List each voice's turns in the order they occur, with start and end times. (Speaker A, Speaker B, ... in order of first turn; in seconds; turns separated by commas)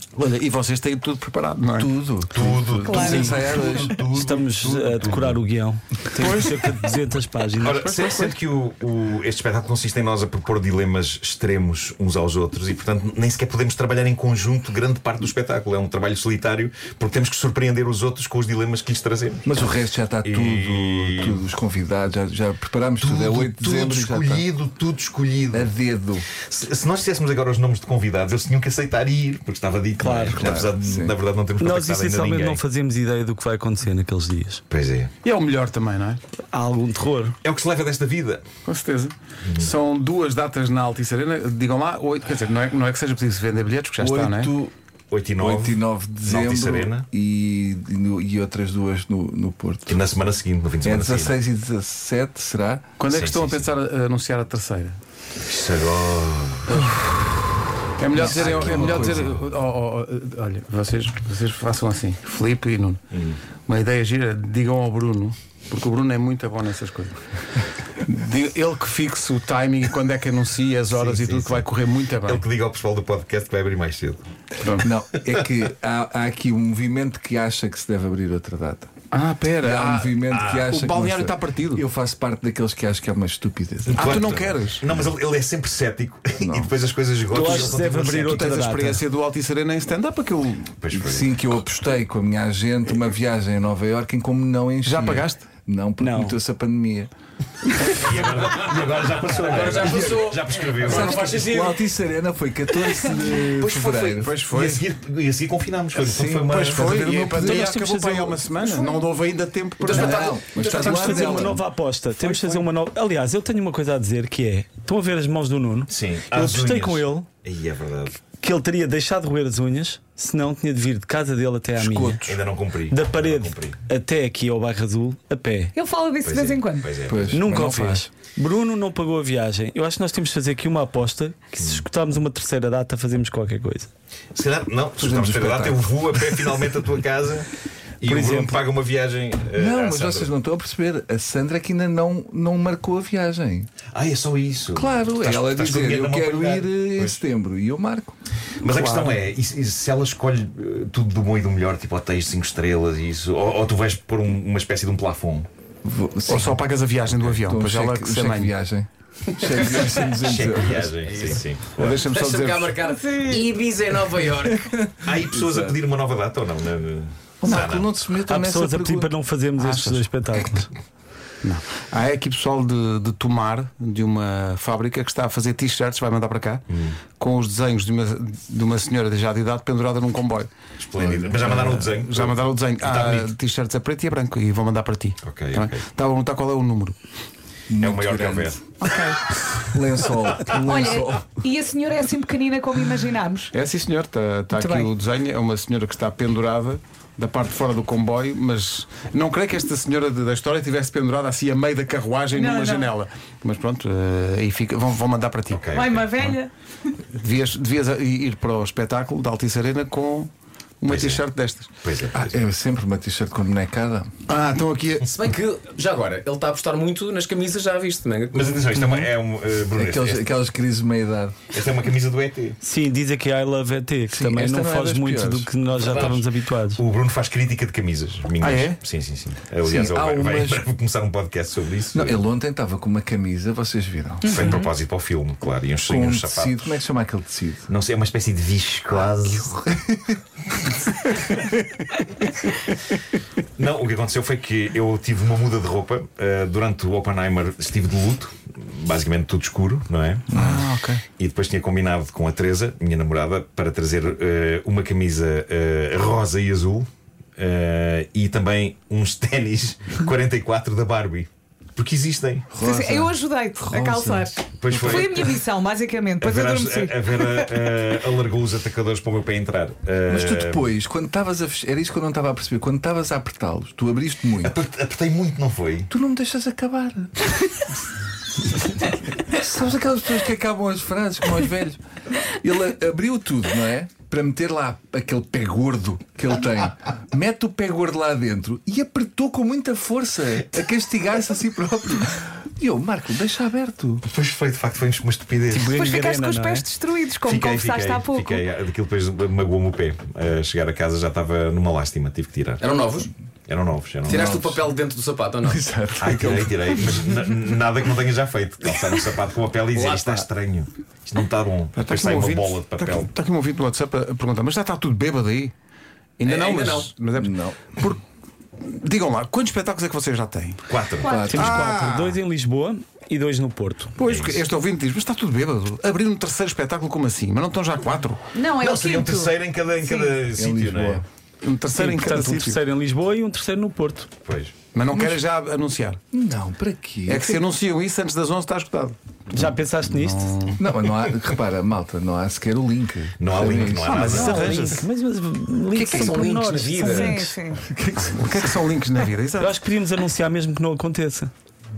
Speaker A: 0.1-1.9, Speaker B: 1.8-4.0, Speaker C: 2.3-5.4, Speaker D: 2.8-3.4, Speaker E: 4.0-8.2, Speaker A: 6.2-6.8, Speaker C: 7.6-19.5, Speaker A: 8.0-8.3, Speaker B: 19.4-24.4, Speaker C: 20.2-21.4, Speaker C: 23.0-25.7, Speaker B: 25.5-26.3, Speaker C: 26.4-32.6, Speaker E: 30.0-30.5, Speaker B: 30.3-31.1, Speaker E: 31.6-34.6, Speaker C: 34.7-35.1, Speaker A: 35.2-36.2, Speaker E: 36.5-37.4, Speaker C: 37.4-38.4, Speaker A: 38.6-44.5, Speaker C: 39.4-39.7, Speaker B: 44.0-44.7, Speaker C: 45.1-47.0, Speaker B: 45.4-50.0, Speaker C: 49.9-51.3, Speaker B: 50.8-52.9, Speaker A: 53.0-55.0, Speaker C: 53.0-53.7, Speaker C: 55.4-57.0, Speaker A: 56.7-57.1, Speaker A: 58.0-63.0, Speaker C: 58.1-59.4, Speaker B: 58.1-59.3, Speaker C: 63.1-63.4, Speaker A: 63.6-67.2, Speaker A: 68.0-72.4, Speaker C: 70.9-71.6, Speaker C: 72.2-74.2, Speaker A: 74.6-74.9, Speaker B: 74.8-78.9, Speaker A: 79.1-81.8, Speaker B: 79.6-85.1, Speaker C: 80.3-80.7, Speaker C: 83.9-88.5, Speaker A: 83.9-84.8, Speaker B: 86.4-86.7, Speaker E: 87.3-89.0, Speaker A: 88.2-90.8, Speaker C: 90.8-91.5, Speaker B: 90.9-97.1, Speaker A: 94.8-95.5, Speaker E: 96.0-96.3, Speaker C: 97.8-101.4, Speaker F: 99.3-101.8, Speaker B: 99.7-104.4, Speaker C: 103.4-107.7, Speaker A: 104.2-104.8, Speaker B: 105.9-107.7, Speaker A: 106.5-111.2, Speaker E: 107.4-108.3, Speaker D: 108.7-109.0, Speaker F: 109.8-111.4, Speaker B: 109.8-111.6, Speaker E: 110.7-117.3, Speaker A: 112.2-112.5, Speaker C: 115.9-118.2, Speaker E: 118.3-122.2, Speaker B: 121.8-122.4, Speaker C: 122.2-123.8, Speaker E: 122.9-125.7, Speaker D: 125.7-127.1, Speaker C: 126.2-127.6, Speaker B: 127.1-128.1, Speaker E: 127.3-133.9, Speaker C: 131.6-131.8, Speaker C: 134.3-140.3, Speaker B: 135.0-136.6, Speaker E: 138.1-138.6, Speaker B: 139.5-143.7, Speaker C: 143.9-147.1, Speaker B: 144.7-148.2, Speaker C: 148.6-155.5, Speaker A: 148.7-149.1, Speaker B: 155.8-156.6, Speaker A: 156.3-158.5, Speaker C: 157.1-157.4, Speaker B: 157.4-161.2, Speaker C: 159.7-162.1, Speaker F: 161.0-164.7, Speaker A: 161.8-162.8, Speaker D: 162.8-163.5, Speaker B: 164.4-165.8, Speaker C: 165.0-167.9, Speaker B: 167.4-169.1, Speaker E: 168.2-170.7, Speaker A: 169.6-170.1, Speaker A: 171.4-176.6, Speaker C: 176.7-177.0, Speaker A: 177.2-180.5, Speaker C: 180.8-183.3, Speaker B: 180.9-181.8, Speaker A: 181.4-187.0, Speaker C: 185.2-185.8, Speaker B: 187.7-188.6, Speaker C: 187.8-188.7, Speaker D: 188.8-189.2, Speaker B: 189.5-191.3, Speaker D: 190.6-193.5, Speaker A: 193.5-205.8, Speaker D: 194.5-194.9, Speaker D: 202.3-202.9, Speaker C: 205.5-206.1, Speaker D: 205.7-206.5, Speaker A: 207.1-211.7, Speaker C: 210.9-211.2, Speaker C: 211.8-212.3, Speaker B: 212.1-214.1, Speaker A: 214.3-215.1, Speaker F: 215.1-218.7, Speaker C: 218.3-220.3, Speaker B: 219.7-221.4, Speaker C: 221.5-222.6, Speaker E: 222.6-226.8, Speaker B: 224.1-225.5, Speaker F: 225.8-226.2, Speaker C: 225.8-232.2, Speaker A: 228.4-228.8, Speaker B: 229.6-230.7, Speaker B: 231.9-234.6, Speaker C: 234.2-236.7, Speaker D: 234.3-234.7, Speaker B: 235.8-237.7, Speaker C: 237.7-239.7, Speaker B: 239.7-240.1, Speaker C: 243.6-250.4, Speaker A: 250.3-251.0, Speaker B: 250.3-250.7, Speaker C: 251.1-262.5, Speaker B: 262.5-265.2, Speaker D: 262.6-267.5, Speaker C: 264.6-265.4, Speaker C: 266.2-270.6, Speaker B: 270.1-274.6, Speaker C: 274.4-275.9, Speaker B: 275.9-277.3, Speaker B: 279.2-294.0, Speaker C: 294.1-295.7, Speaker E: 295.5-296.6, Speaker D: 295.7-298.4, Speaker C: 297.2-302.6, Speaker F: 302.6-303.1, Speaker C: 303.5-304.4, Speaker F: 304.1-305.6, Speaker B: 304.1-304.6, Speaker B: 305.4-307.1, Speaker C: 306.0-313.1, Speaker F: 309.7-310.2, Speaker A: 311.7-315.5, Speaker A: 316.2-318.0, Speaker F: 316.2-316.9, Speaker B: 317.1-317.6, Speaker A: 318.6-320.6, Speaker C: 320.7-321.2, Speaker D: 321.0-321.4, Speaker B: 321.0-321.7, Speaker E: 321.2-324.0, Speaker A: 321.3-322.2, Speaker A: 323.9-328.3, Speaker C: 324.0-324.4, Speaker D: 328.3-330.1, Speaker C: 328.5-331.0, Speaker B: 330.3-331.1, Speaker A: 331.4-332.6, Speaker E: 331.7-334.1, Speaker C: 334.2-334.5, Speaker A: 334.7-336.0, Speaker B: 334.9-335.2, Speaker B: 336.1-337.4, Speaker A: 337.1-340.6, Speaker E: 339.3-340.5, Speaker B: 340.6-344.1, Speaker C: 343.2-344.6, Speaker A: 343.9-344.9, Speaker E: 343.9-347.3, Speaker F: 345.7-347.3, Speaker D: 346.8-347.7, Speaker B: 347.6-348.6, Speaker A: 348.0-349.6, Speaker E: 349.4-351.3